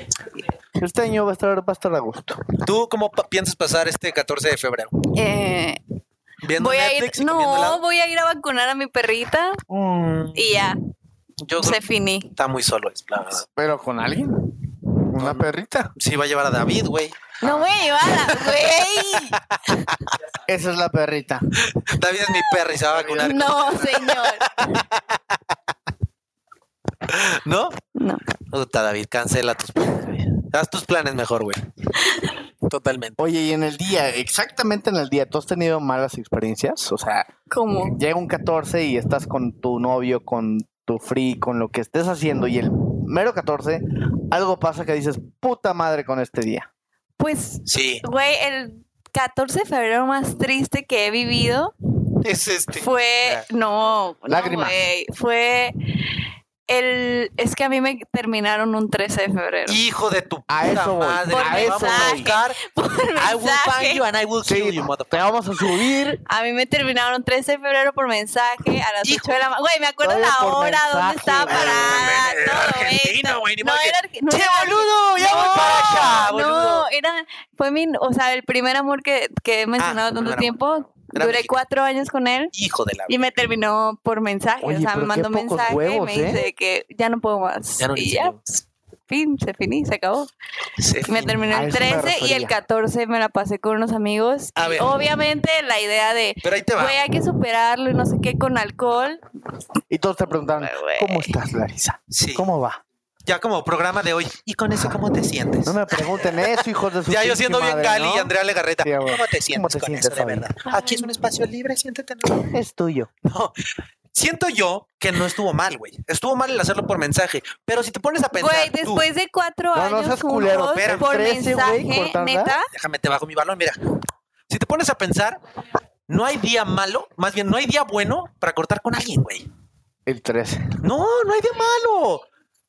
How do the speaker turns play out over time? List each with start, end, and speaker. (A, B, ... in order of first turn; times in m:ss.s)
0:00.8-0:02.5 A
0:02.6-0:05.0 B
0:05.1-0:05.8 C
0:06.4-0:07.8 B
0:06.6-0:09.6 C
0:09.7-0:10.5 B
0:10.3-0:10.8 C
0:11.4-0:13.4 B
0:11.6-0:12.3 C
0:13.5-0:14.5 A
0:15.1-0:15.9 A
0:15.1-0:17.4 B
0:17.4-0:19.8 C
0:20.5-0:21.4 A
0:21.7-0:25.2 B
0:22.9-0:23.7 A
0:23.2-0:24.5 C
0:27.1-0:27.8 B
0:27.9-0:28.2 C
0:28.5-0:31.6 B
0:32.7-0:33.2 B
0:33.2-0:37.3 A
0:37.5-0:38.0 C
0:37.8-0:46.7 A
0:47.2-0:51.7 C
0:47.6-0:48.0 B
0:52.2-0:53.4 B
0:52.8-0:55.7 C
0:54.3-0:54.7 A
0:56.7-0:59.8 C
0:59.7-1:02.6 B
1:00.5-1:02.3 A
1:01.3-1:04.0 C
1:03.2-1:05.2 B
1:04.4-1:06.2 A
1:06.2-1:22.5 C
1:09.0-1:09.4 B
1:10.0-1:12.2 A
1:11.4-1:16.9 B
1:15.3-1:15.9 A
1:19.8-1:21.5 B
1:22.5-1:23.2 B
1:23.1-1:28.5 C
1:24.6-1:26.4 A
1:27.8-1:28.4 B
1:29.1-1:30.3 C
1:30.8-1:31.5 B
1:31.1-1:39.2 C
1:31.5-1:32.5 A
1:34.6-1:35.0 B
1:36.4-1:37.0 B
1:39.9-1:42.8 A
1:40.3-1:41.3 C
1:42.1-1:42.5 B
1:43.2-1:45.8 B
1:45.6-1:50.5 A
1:46.6-1:52.5 B
1:50.7-1:51.1 C
1:52.4-1:53.1 A
1:53.2-1:53.5 B
1:54.1-1:59.0 B
1:58.3-2:02.7 C
1:59.7-2:02.6 A
2:00.5-2:01.1 B
2:02.7-2:03.8 B
2:04.5-2:05.4 B
2:06.1-2:09.5 B
2:10.0-2:10.8 A
2:10.8-2:12.2 B